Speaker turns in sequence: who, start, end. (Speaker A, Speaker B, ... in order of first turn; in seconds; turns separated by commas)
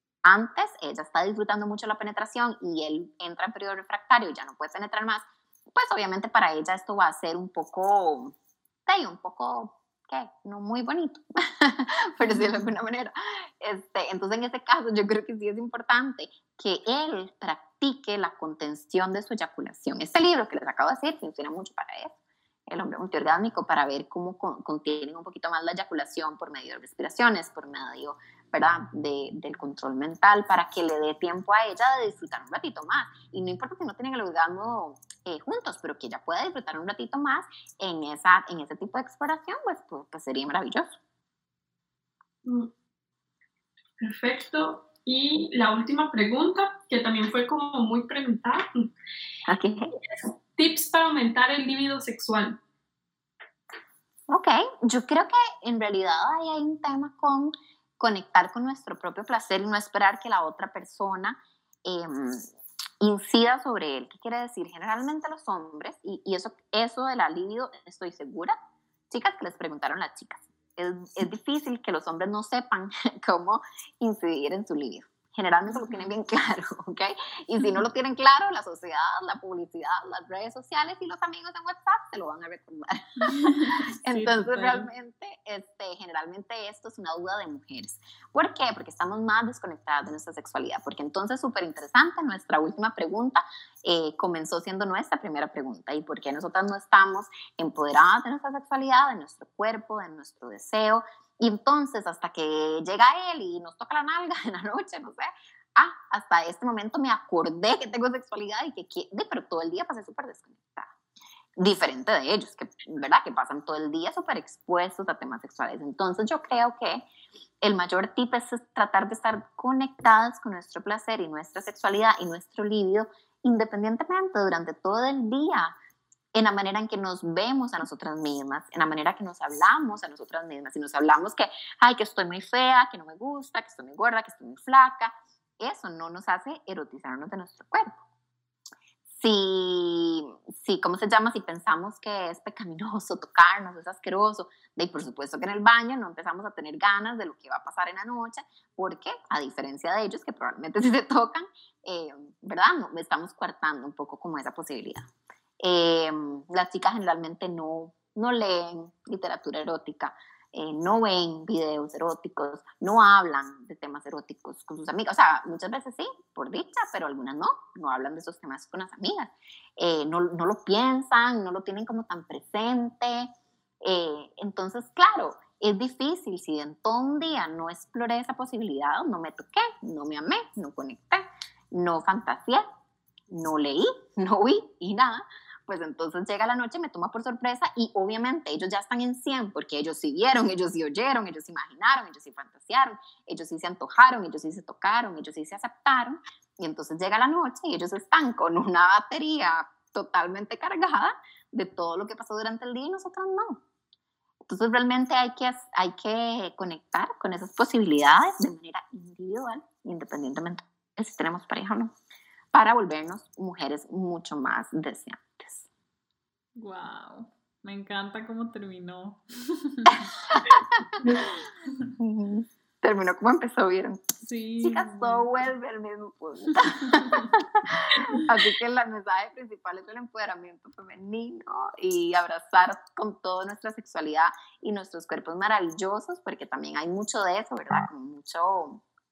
Speaker A: 0.2-22.2, Speaker B: 12.2-12.6, Speaker A: 22.7-41.0, Speaker C: 42.5-42.7, Speaker C: 44.0-48.9, Speaker A: 49.5-49.9, Speaker C: 50.0-52.6, Speaker A: 54.3-68.6, Speaker A: 69.1-110.9, Speaker B: 83.2-84.9, Speaker A: 111.6-117.1, Speaker A: 117.6-125.8, Speaker A: 126.3-138.0, Speaker A: 139.1-155.1, Speaker A: 155.6-173.3, Speaker A: 173.8-182.7, Speaker A: 183.3-203.6, Speaker A: 204.5-211.9, Speaker A: 212.5-215.7, Speaker B: 216.6-220.0, Speaker A: 219.9-221.0, Speaker A: 222.0-224.0, Speaker B: 224.2-225.3, Speaker A: 224.6-238.8, Speaker B: 226.7-227.3